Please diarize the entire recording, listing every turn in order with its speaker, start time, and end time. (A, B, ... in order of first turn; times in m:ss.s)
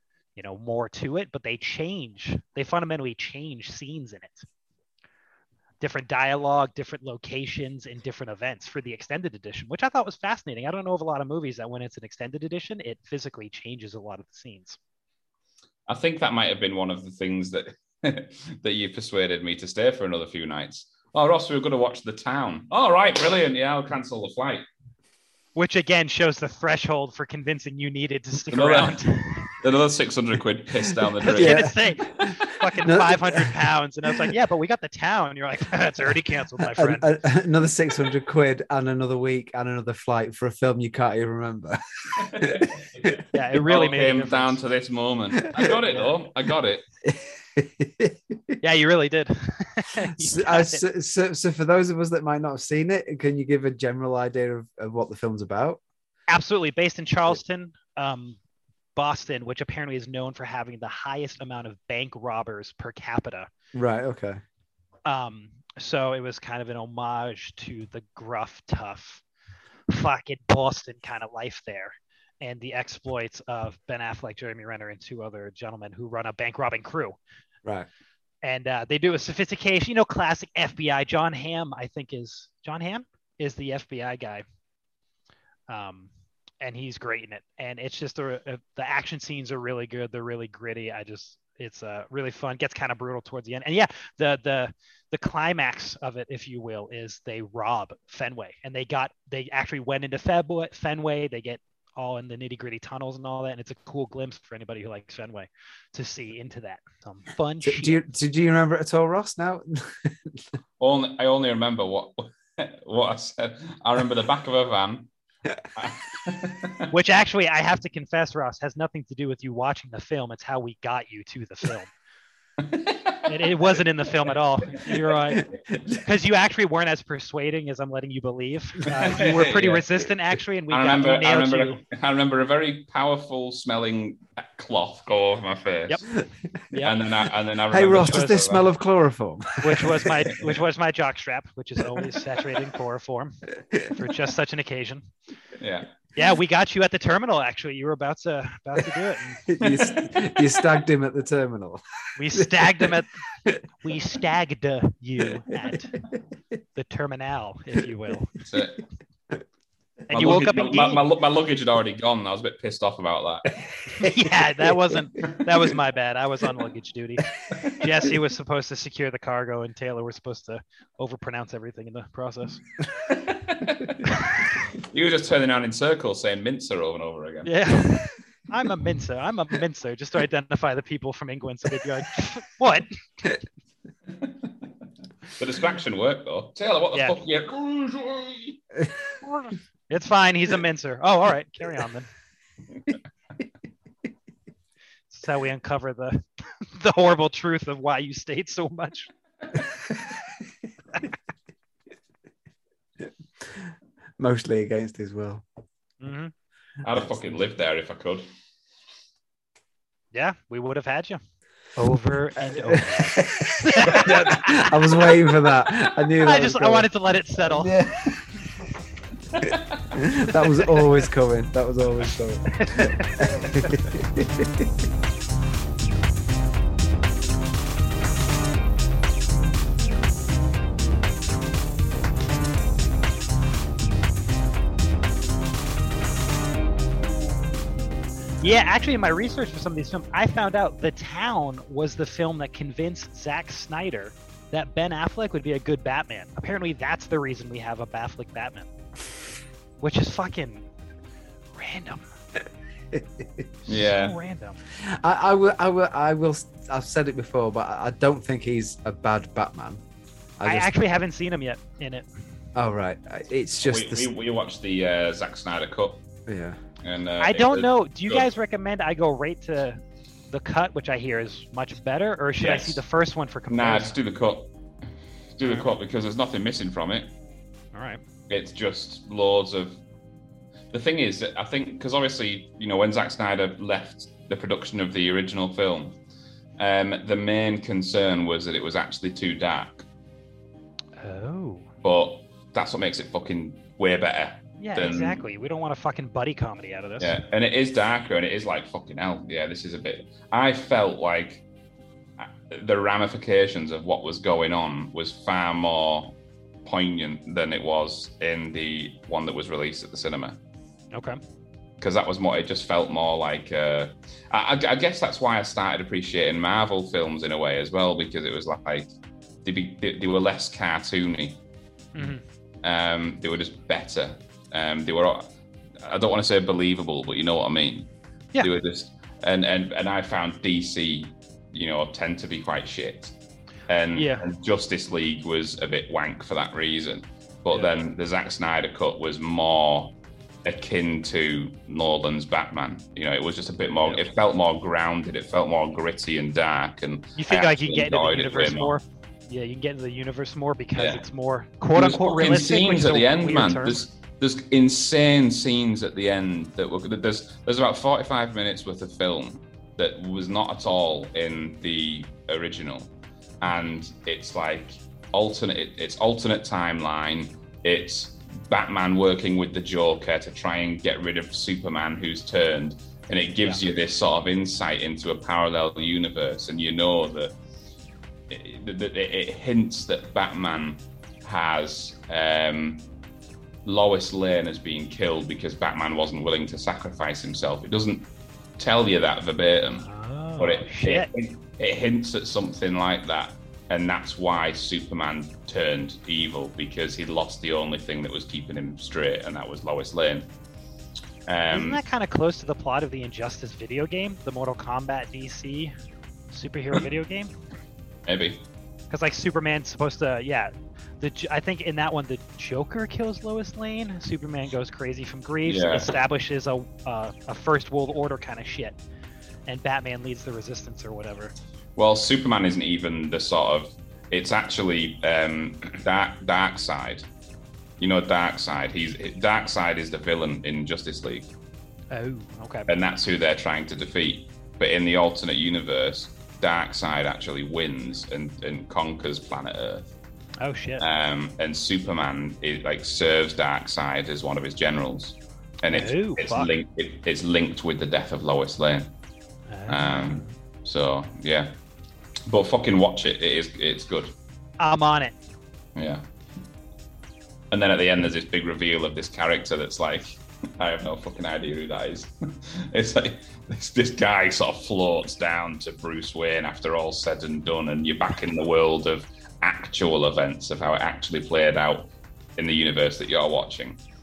0:00.4-0:04.4 A
0:05.8-0:14.8 A
0:15.9-0:24.6 B
0:25.6-0:29.5 A
0:28.5-0:32.3 B
0:31.2-0:37.2 A
0:31.2-0:31.8 C
0:32.8-0:33.6 C
0:36.7-0:43.2 C
0:42.2-0:46.8 B
0:43.3-0:44.6 A
0:45.5-0:45.7 C
0:47.0-0:48.6 C
0:48.6-0:50.8 A
0:50.2-0:55.8 C
0:56.3-0:58.4 A
0:59.0-1:03.5 A
1:03.7-1:04.4 C
1:05.0-1:09.2 A
1:09.9-1:17.2 A
1:18.4-1:24.4 A
1:25.7-1:48.0 A
1:47.6-1:50.4 C
1:50.8-1:55.1 B
1:55.7-1:56.9 B
1:56.9-2:01.9 A
2:02.6-2:03.3 B
2:03.3-2:11.8 A
2:05.3-2:05.8 C
2:08.9-2:10.0 B
2:10.7-2:16.0 B
2:16.7-2:17.0 A
2:16.8-2:18.7 B
2:17.7-2:20.0 C
2:19.6-2:25.1 A
2:25.6-2:25.9 B
2:26.2-2:29.5 A
2:29.5-2:31.8 C
2:32.2-2:33.1 A
2:32.3-2:32.9 C
2:33.8-2:36.0 A
2:36.7-2:38.4 A
2:38.4-2:38.8 B
2:40.1-2:41.0 A
2:40.1-2:43.5 B
2:43.9-2:52.6 A
2:44.0-2:44.7 C
2:53.1-2:54.0 B
2:54.0-2:54.4 A
2:54.8-2:57.5 B
2:57.4-3:03.3 A
3:05.4-3:08.6 B
3:06.9-3:07.2 A
3:09.2-3:12.1 A
3:15.1-3:19.1 A
3:23.4-3:25.4 C
3:26.0-3:26.3 A
3:26.8-3:28.2 B
3:30.1-3:31.2 A
3:31.8-3:35.3 A
3:32.4-3:36.9 C
3:36.2-3:37.7 A
3:37.4-3:38.3 C
3:39.9-3:44.7 C
3:42.6-3:43.4 A
3:58.4-4:08.7 A
4:09.8-4:10.7 A
4:11.5-4:12.0 A
4:12.9-4:13.5 C
4:13.7-4:14.6 A
4:13.7-4:14.2 B
4:14.8-4:19.8 C
4:20.4-4:20.7 C
4:20.4-4:22.1 A
4:22.5-4:24.1 C
4:23.6-4:26.0 B
4:26.3-4:26.6 C
4:26.8-4:28.3 B
4:27.2-4:33.9 A
4:32.4-4:32.8 B
4:33.5-4:34.5 B
4:35.4-4:37.1 B
4:35.4-4:35.7 A
4:37.7-4:38.0 A
4:38.3-4:39.8 B
4:40.7-4:46.0 B
4:46.6-4:49.8 B
4:51.0-4:51.7 A
4:51.8-4:55.2 B
4:54.6-4:57.2 A
4:57.0-5:01.4 B
5:02.2-5:10.4 B
5:10.9-5:11.2 A
5:11.8-5:18.9 B
5:19.4-5:21.4 B
5:21.9-5:22.2 A
5:22.6-5:33.1 B
5:33.7-5:48.8 B
5:33.9-5:34.2 A
5:47.2-5:53.8 A
5:50.8-5:51.0 B
5:51.7-6:17.3 B
6:18.3-6:22.9 B
6:23.6-6:29.8 B
6:29.8-6:31.1 A
6:30.4-6:40.3 B
6:41.2-6:41.8 B
6:41.5-6:45.7 A
6:46.3-6:47.3 A
6:48.1-6:48.4 B
6:48.9-6:58.8 A
6:55.4-6:55.9 B
6:59.5-7:01.3 A
7:01.8-7:07.0 B
7:07.8-7:11.3 B
7:11.9-7:12.7 A
7:12.7-7:19.9 B
7:20.4-7:20.8 A
7:20.8-7:28.9 B
7:25.7-7:26.5 A
7:29.5-7:30.3 A
7:29.7-7:31.5 B
7:32.3-7:34.1 B
7:34.6-7:35.2 A
7:35.7-7:36.0 B
7:37.5-7:53.8 B